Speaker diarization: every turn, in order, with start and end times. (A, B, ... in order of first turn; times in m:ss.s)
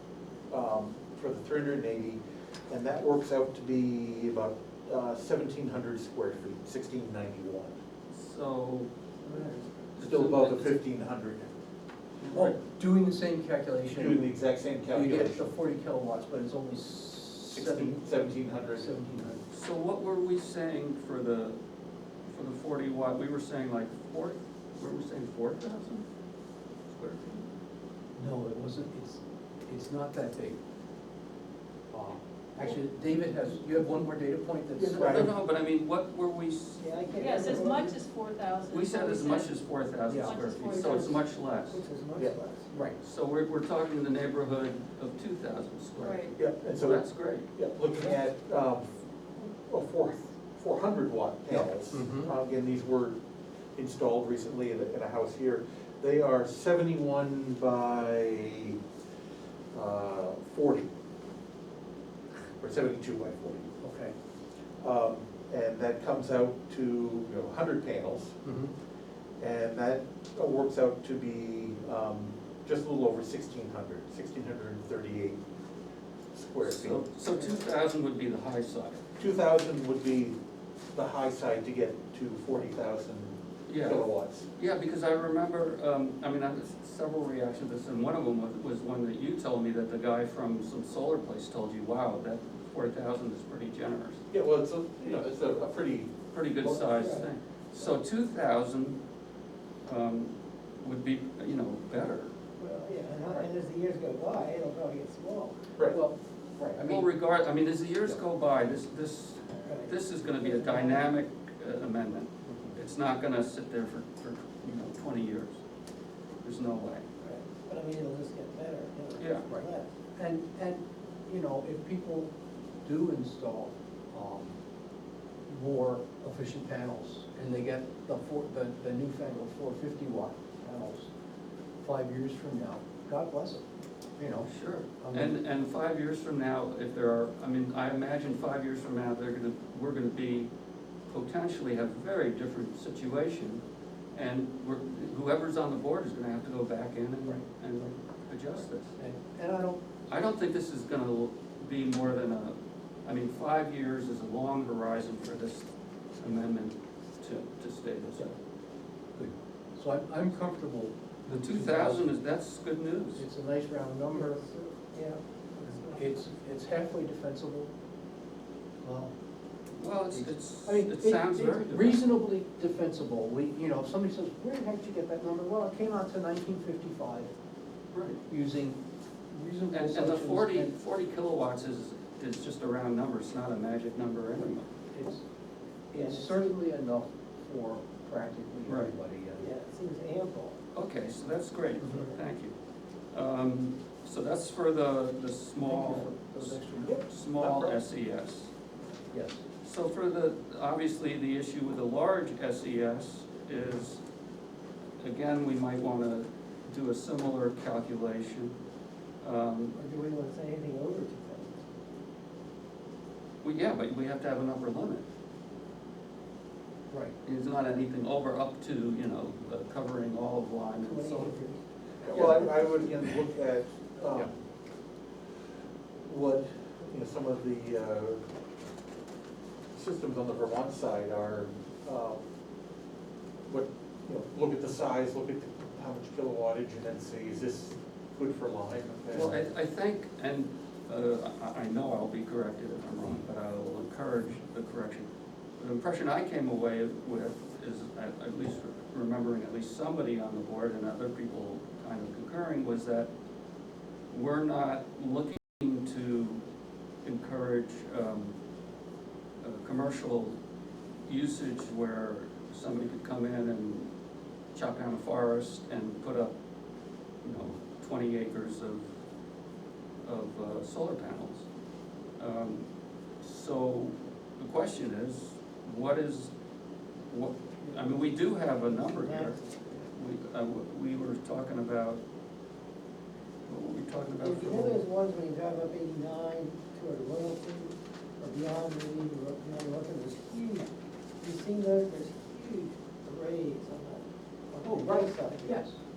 0:00.5-0:07.8 A
0:08.1-0:08.9 B
0:09.2-0:09.6 C
0:09.9-0:10.8 B
0:10.0-0:11.5 A
0:12.2-0:12.6 B
0:12.3-0:14.2 D
0:13.9-0:15.4 A
0:14.9-0:19.4 D
0:17.5-0:18.9 A
0:19.5-0:21.6 B
0:22.3-0:26.1 B
0:26.9-0:27.5 B
0:28.2-0:30.6 D
0:31.9-0:35.3 D
0:34.8-0:35.3 A
0:34.9-0:37.7 B
0:36.8-0:38.0 C
0:37.2-0:39.6 E
0:38.7-0:41.8 B
0:40.1-0:40.3 D
0:40.2-0:41.2 E
0:40.6-0:41.2 C
0:41.7-0:42.7 C
0:42.7-0:43.0 D
0:43.0-0:47.5 B
0:46.0-0:46.3 E
0:46.4-0:47.0 A
0:47.5-0:53.2 A
0:51.5-0:52.3 D
0:53.8-0:58.8 A
0:59.7-1:00.9 A
1:02.6-1:03.7 A
1:03.8-1:04.1 D
1:04.8-1:08.4 A
1:08.4-1:08.7 D
1:09.4-1:15.4 A
1:16.3-1:17.0 A
1:16.6-1:19.0 B
1:19.2-1:20.4 A
1:20.9-1:24.5 A
1:23.7-1:34.2 B
1:34.3-1:36.8 A
1:36.3-1:39.0 B
1:36.8-1:37.2 C
1:39.8-1:42.3 B
1:42.6-1:45.6 C
1:45.9-1:47.1 D
1:46.8-1:55.6 B
1:49.6-1:51.1 C
1:52.4-1:52.8 D
1:56.4-1:57.0 B
1:57.2-1:59.9 C
1:59.2-1:59.5 B
1:59.5-2:02.3 D
2:02.8-2:04.5 D
2:05.5-2:11.1 D
2:11.8-2:13.6 D
2:14.2-2:14.5 D
2:14.5-2:20.5 B
2:15.0-2:15.4 D
2:21.1-2:23.6 B
2:24.1-2:28.9 B
2:29.0-2:29.8 D
2:30.1-2:38.4 B
2:39.2-2:42.1 D
2:41.3-2:43.2 B
2:43.1-2:44.4 D
2:44.1-2:46.2 C
2:45.9-2:47.7 D
2:48.8-2:49.1 D
2:49.8-2:52.2 B
2:50.1-2:57.3 D
2:57.9-2:58.2 B
2:58.3-3:00.7 D
2:59.7-3:04.7 B
3:04.9-3:05.2 D
3:05.9-3:09.5 D
3:06.0-3:06.3 C
3:08.7-3:08.9 B
3:09.4-3:10.6 C
3:10.7-3:12.6 B
3:13.1-3:18.5 B
3:15.6-3:17.0 D
3:16.8-3:17.8 A
3:19.1-3:19.4 D
3:19.6-3:24.0 B
3:25.0-3:28.6 B
3:29.2-3:29.8 B
3:29.8-3:31.7 C
3:33.4-3:35.0 B
3:37.2-3:41.5 B
3:40.8-3:41.6 C
3:42.0-3:44.3 A
3:42.1-3:42.5 B
3:46.1-3:48.2 A
3:49.7-3:52.2 A
3:53.5-3:59.4 A
3:59.1-4:05.1 B
4:05.6-4:13.1 B
4:14.1-4:16.4 B
4:17.0-4:18.3 B
4:19.4-4:20.4 B
4:21.1-4:23.9 B
4:24.6-4:26.3 B
4:27.2-4:28.9 B
4:30.0-4:31.4 B
4:32.2-4:32.6 B
4:33.2-4:36.3 B
4:37.1-4:39.4 B
4:37.6-4:39.9 C
4:39.9-4:42.0 B
4:43.5-4:44.8 B
4:44.2-4:55.6 C
4:54.6-4:55.8 D